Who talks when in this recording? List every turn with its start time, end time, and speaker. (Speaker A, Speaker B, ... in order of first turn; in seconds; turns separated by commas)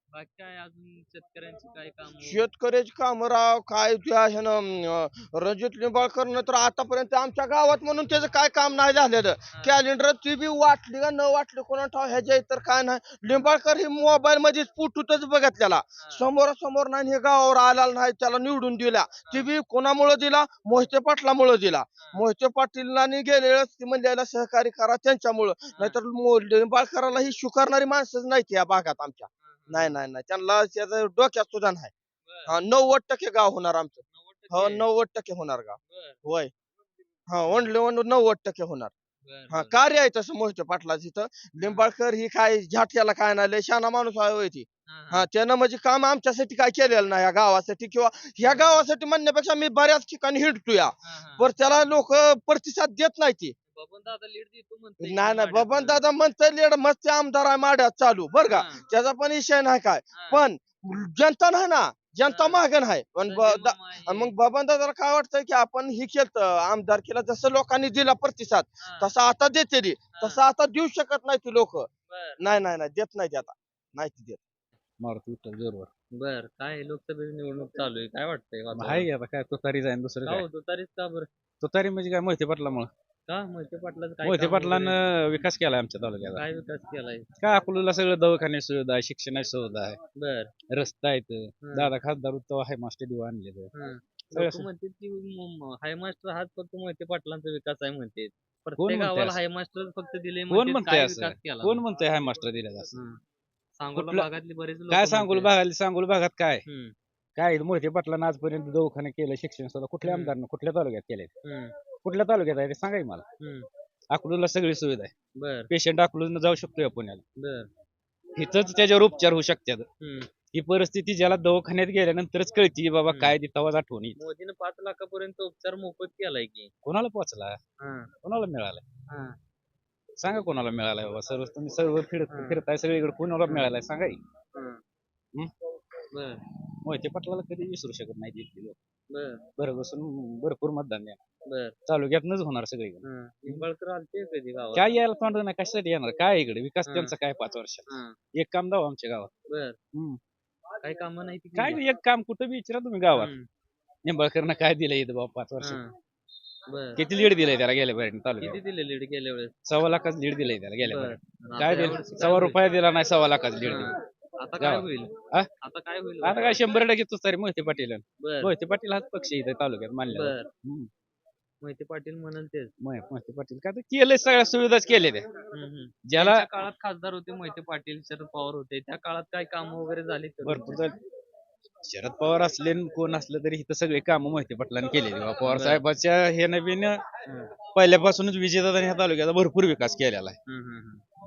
Speaker A: 0.1-2.5, Speaker B: 2.2-31.9, Speaker A: 9.5-9.8, Speaker A: 13.3-13.5, Speaker A: 16.0-16.2, Speaker A: 25.7-26.0, Speaker A: 29.4-30.0, Speaker A: 32.3-32.5, Speaker B: 32.5-36.5, Speaker A: 34.1-34.9, Speaker A: 35.9-36.2, Speaker B: 37.3-38.9, Speaker A: 39.2-39.8, Speaker B: 39.5-53.5, Speaker A: 41.6-41.9, Speaker A: 44.9-45.3, Speaker A: 48.4-48.9, Speaker A: 51.0-51.9, Speaker A: 53.7-56.0, Speaker B: 55.0-71.9, Speaker A: 58.5-58.8, Speaker A: 60.1-60.4, Speaker A: 62.3-62.6, Speaker A: 63.3-64.3, Speaker A: 68.8-69.1, Speaker A: 70.2-70.4, Speaker A: 72.1-72.4, Speaker B: 72.4-74.4, Speaker C: 75.0-75.9, Speaker A: 76.2-79.1, Speaker C: 78.7-80.5, Speaker A: 80.2-81.3, Speaker C: 81.6-82.9, Speaker A: 83.3-85.0, Speaker C: 84.2-86.4, Speaker A: 86.2-87.3, Speaker C: 87.4-90.0, Speaker A: 90.2-90.5, Speaker C: 90.7-93.7, Speaker A: 91.6-91.9, Speaker A: 93.7-101.8, Speaker C: 94.3-94.7, Speaker C: 98.8-99.4, Speaker C: 100.5-102.9, Speaker A: 102.9-103.2, Speaker A: 103.8-105.5, Speaker C: 104.0-104.3, Speaker C: 104.9-106.6, Speaker A: 106.7-107.0, Speaker C: 107.4-111.3, Speaker A: 110.0-110.3, Speaker A: 111.4-111.7, Speaker C: 112.0-113.2, Speaker A: 113.4-113.7, Speaker C: 114.1-115.1, Speaker A: 115.4-115.7, Speaker C: 115.7-117.2, Speaker A: 117.4-117.7, Speaker C: 118.4-119.9, Speaker A: 120.0-120.3, Speaker C: 120.5-124.2, Speaker A: 123.1-123.3, Speaker A: 124.2-126.7, Speaker C: 126.8-127.6, Speaker A: 127.8-128.1, Speaker C: 128.2-128.8, Speaker A: 129.1-129.3, Speaker C: 130.2-134.2, Speaker A: 132.3-132.6, Speaker A: 133.4-133.8, Speaker A: 134.6-134.8, Speaker A: 136.1-136.4, Speaker C: 136.8-138.8, Speaker A: 139.1-139.5, Speaker C: 139.6-141.2, Speaker A: 141.5-141.8, Speaker C: 141.9-143.7, Speaker A: 143.0-145.0, Speaker C: 144.8-149.3, Speaker A: 146.9-147.2, Speaker A: 147.9-148.2, Speaker A: 149.5-149.8, Speaker C: 149.9-150.2, Speaker A: 150.8-151.8, Speaker C: 151.6-153.3, Speaker A: 153.1-153.5, Speaker C: 154.1-155.8, Speaker A: 155.6-155.9, Speaker A: 156.7-157.0, Speaker C: 157.0-158.6, Speaker A: 158.4-159.6, Speaker C: 159.7-163.9, Speaker A: 160.8-162.6, Speaker A: 163.6-166.6, Speaker C: 164.6-165.5, Speaker C: 166.2-170.9, Speaker A: 168.2-168.5, Speaker A: 170.1-170.5, Speaker A: 171.6-172.7, Speaker C: 172.8-175.3, Speaker A: 175.5-180.9, Speaker C: 176.1-176.4, Speaker C: 180.4-180.9, Speaker C: 181.8-187.0, Speaker A: 185.5-185.8, Speaker A: 187.3-187.5, Speaker C: 187.8-190.4, Speaker A: 190.5-191.0